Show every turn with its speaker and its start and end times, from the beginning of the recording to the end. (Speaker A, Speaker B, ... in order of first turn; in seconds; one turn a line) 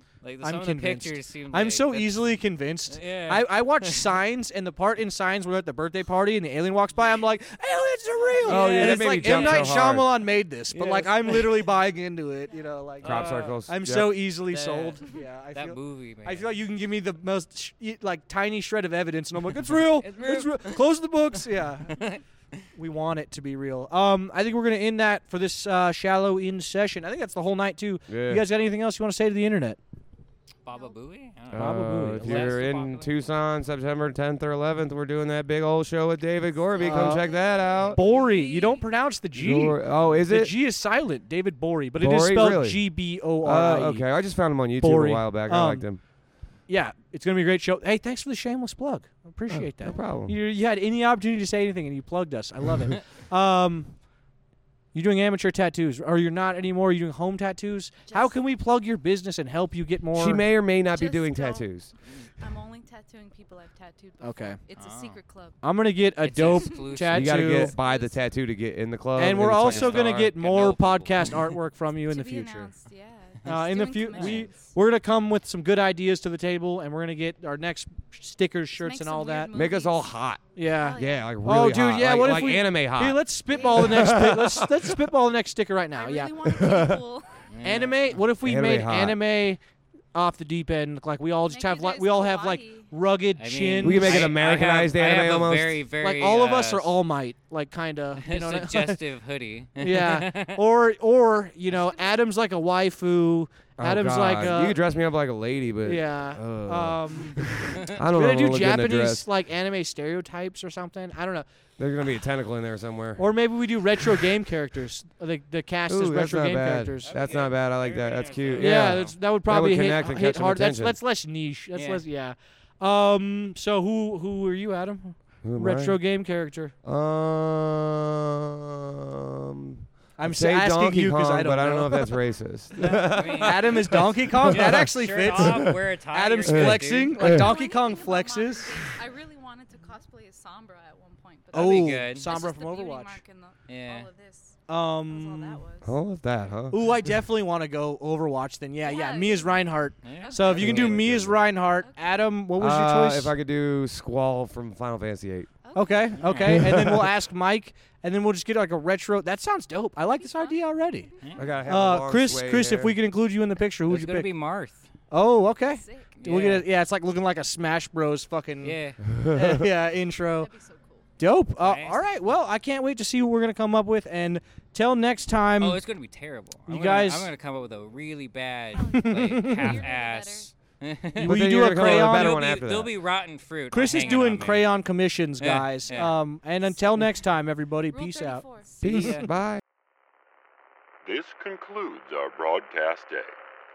Speaker A: 0.2-2.4
Speaker B: 0.4-22.0
Speaker A: 2.9-4.2
Speaker A: 8.4-10.0
Speaker C: 8.4-10.2
Speaker A: 10.7-11.7
Speaker A: 13.0-13.8
Speaker C: 13.0-14.3
Speaker A: 14.3-16.5
Speaker A: 19.6-20.9
Speaker A: 21.9-22.2
Speaker B: 22.8-29.8
Speaker C: 28.1-28.5
Speaker A: 30.6-33.2
Speaker D: 30.7-31.0
Speaker C: 31.5-38.0
Speaker B: 31.5-32.6
Speaker B: 36.8-37.3
Speaker A: 37.1-38.8
Speaker D: 37.2-38.8
Speaker B: 37.9-44.1
Speaker C: 39.3-40.6
Speaker C: 42.0-46.0
Speaker B: 44.8-45.9
Speaker B: 46.7-54.0
Speaker C: 49.5-50.4
Speaker B: 54.9-60.5
Speaker D: 58.0-58.4
Speaker C: 60.1-61.9
Speaker D: 60.9-61.7
Speaker D: 62.4-65.6
Speaker B: 64.2-64.6
Speaker A: 64.7-65.2
Speaker B: 65.6-67.8
Speaker A: 66.2-67.7
Speaker C: 67.1-70.3
Speaker D: 67.8-68.2
Speaker B: 69.2-72.7
Speaker A: 69.2-71.6
Speaker D: 72.1-74.7
Speaker B: 73.5-79.5
Speaker A: 73.5-74.5
Speaker D: 78.8-81.2
Speaker C: 79.5-84.9
Speaker B: 80.6-86.4
Speaker D: 83.5-84.1
Speaker D: 85.9-87.4
Speaker C: 86.4-87.0
Speaker A: 87.5-88.3
Speaker B: 87.6-89.6
Speaker C: 88.4-89.2
Speaker B: 90.1-94.4
Speaker D: 91.5-92.9
Speaker A: 93.4-97.0
Speaker C: 93.8-95.8
Speaker B: 96.0-99.0
Speaker A: 98.2-100.6
Speaker B: 99.8-104.8
Speaker D: 101.7-102.2
Speaker C: 103.8-109.3
Speaker B: 105.8-107.4
Speaker A: 107.7-108.0
Speaker B: 108.0-111.5
Speaker C: 111.8-113.3
Speaker B: 113.2-117.2
Speaker C: 115.9-121.0
Speaker A: 117.0-119.2
Speaker B: 118.5-126.7
Speaker A: 121.8-122.0
Speaker C: 125.4-126.0
Speaker C: 126.8-135.8
Speaker B: 130.2-138.9
Speaker A: 132.8-137.3
Speaker C: 136.5-137.5
Speaker D: 137.2-145.9
Speaker B: 141.5-143.2
Speaker A: 141.5-142.3
Speaker A: 143.7-144.1
Speaker B: 144.7-145.6
Speaker C: 145.8-147.1
Speaker B: 146.7-153.3
Speaker D: 148.8-150.7
Speaker A: 150.0-151.0
Speaker C: 150.5-151.5
Speaker D: 151.8-152.3
Speaker C: 152.6-155.5
Speaker D: 155.6-156.2
Speaker B: 155.7-161.1
Speaker A: 156.1-156.6
Speaker C: 156.4-157.1
Speaker D: 160.0-161.4
Speaker A: 161.2-161.5
Speaker C: 161.4-163.0
Speaker B: 161.7-164.3
Speaker A: 163.9-164.9
Speaker B: 165.1-170.5
Speaker D: 165.6-166.4
Speaker A: 166.2-166.7
Speaker A: 168.6-169.0
Speaker C: 169.1-169.6
Speaker D: 170.3-171.1
Speaker B: 171.2-175.8
Speaker A: 171.6-172.2
Speaker A: 175.6-184.7
Speaker B: 176.7-177.3
Speaker D: 178.7-180.5
Speaker B: 178.9-179.8
Speaker C: 181.2-182.9
Speaker B: 181.2-182.4
Speaker B: 183.7-189.2
Speaker A: 185.4-186.1
Speaker D: 186.6-187.0
Speaker D: 187.9-189.2
Speaker C: 188.8-189.6
Speaker A: 188.8-189.3
Speaker E: 191.1-193.3